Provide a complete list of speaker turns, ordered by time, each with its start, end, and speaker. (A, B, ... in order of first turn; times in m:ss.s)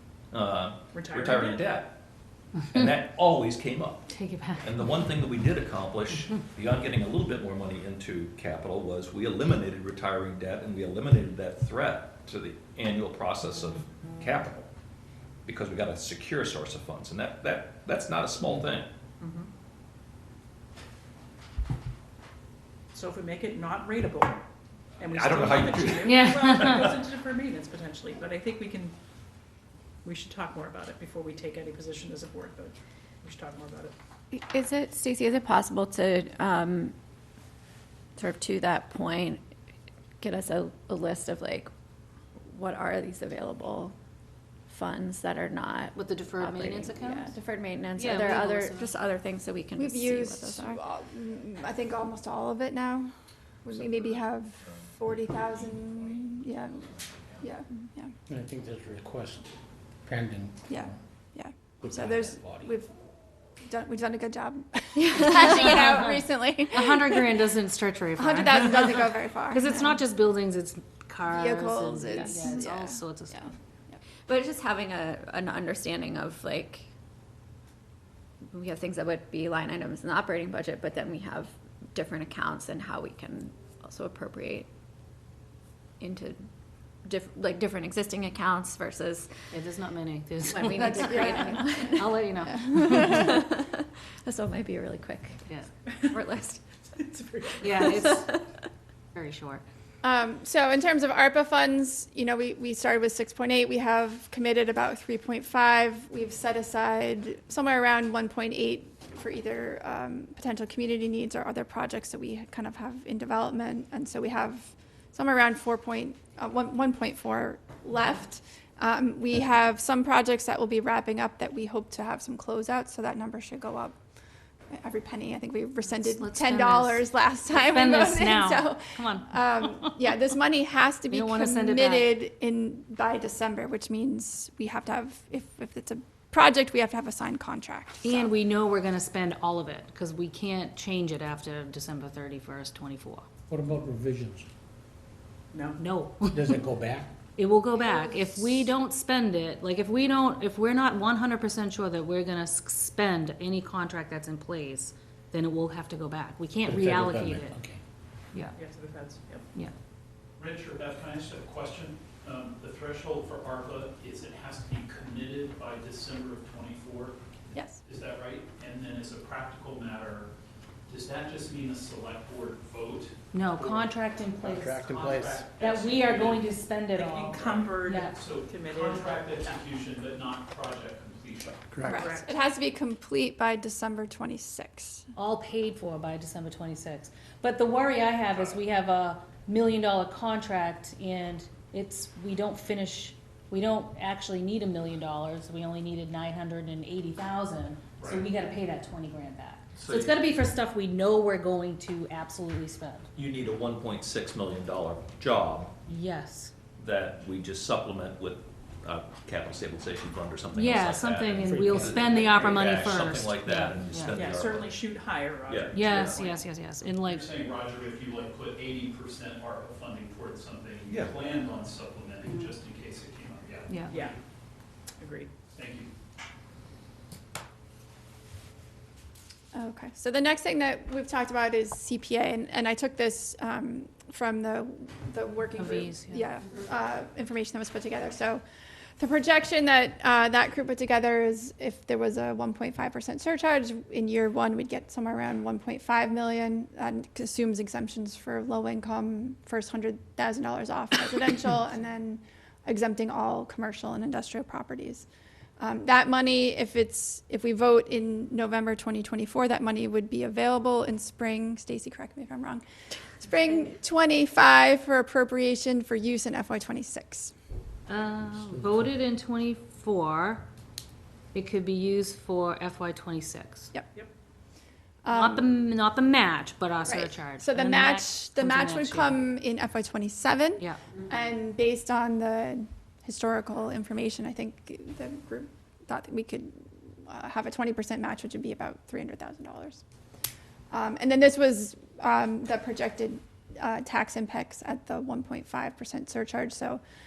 0:00.3-0:01.9 A
0:00.9-0:01.6 B
0:02.7-0:14.7 A
0:04.1-0:04.7 C
0:15.4-0:18.9 A
0:19.2-0:19.5 B
0:22.9-0:24.4 B
0:25.0-0:28.9 B
0:25.0-0:26.9 A
0:26.0-0:27.0 C
0:30.0-0:33.9 B
0:34.3-0:36.9 D
0:38.2-0:39.4 D
0:40.2-0:41.7 D
0:42.4-0:43.9 D
0:44.7-0:50.8 D
0:45.9-0:47.4 C
0:47.9-0:48.9 C
0:49.8-0:53.1 E
0:53.6-0:58.1 E
0:58.3-0:59.4 F
1:00.0-1:00.6 F
1:00.7-1:02.9 E
1:01.9-1:02.2 F
1:03.6-1:07.3 E
1:05.0-1:05.9 D
1:05.8-1:13.5 C
1:08.2-1:10.0 E
1:11.2-1:13.0 E
1:14.2-1:16.8 D
1:18.4-1:24.7 D
1:26.0-1:26.4 D
1:27.0-1:29.5 D
1:29.5-1:33.3 C
1:30.5-1:36.6 D
1:30.8-1:31.8 E
1:32.4-1:33.4 E
1:37.1-1:37.7 B
1:37.6-1:38.4 C
1:37.6-1:38.4 D
1:39.1-1:39.6 C
1:40.0-2:04.0 E
2:04.7-2:18.3 E
2:05.8-2:10.0 C
2:11.1-2:12.2 C
2:18.0-2:23.3 C
2:23.5-2:24.4 F
2:25.8-2:26.6 C
2:26.3-2:27.1 F
2:27.4-2:37.6 C
2:36.7-2:37.8 F
2:38.6-2:39.4 B
2:40.4-2:47.2 G
2:47.5-2:47.8 E
2:47.8-2:50.3 G
2:50.9-2:56.5 G
2:53.3-2:54.9 C
2:55.5-2:58.1 C
2:56.9-2:59.5 B
2:57.4-3:01.8 G
3:01.8-3:05.1 E
3:01.9-3:02.3 B
3:05.2-3:23.1 C
3:08.3-3:08.6 G
3:19.8-3:20.2 A
3:23.1-3:25.7 A
3:25.9-3:26.5 C
3:26.8-3:34.8 A
3:30.5-3:34.4 C
3:34.1-3:36.4 B
3:35.4-3:36.3 A
3:35.7-3:37.3 C
3:37.0-3:44.2 G
3:43.9-3:44.1 B
3:45.0-3:45.3 B
3:45.5-3:45.9 G
3:49.5-3:58.4 E
3:55.5-3:56.3 C
3:59.0-4:15.0 E
4:15.6-4:22.6 E
4:23.2-4:27.3 E
4:27.9-4:30.4 C
4:31.3-4:33.7 C
4:35.0-4:35.5 E
4:35.1-4:39.2 C
4:36.8-4:49.8 E
4:50.7-4:56.8 E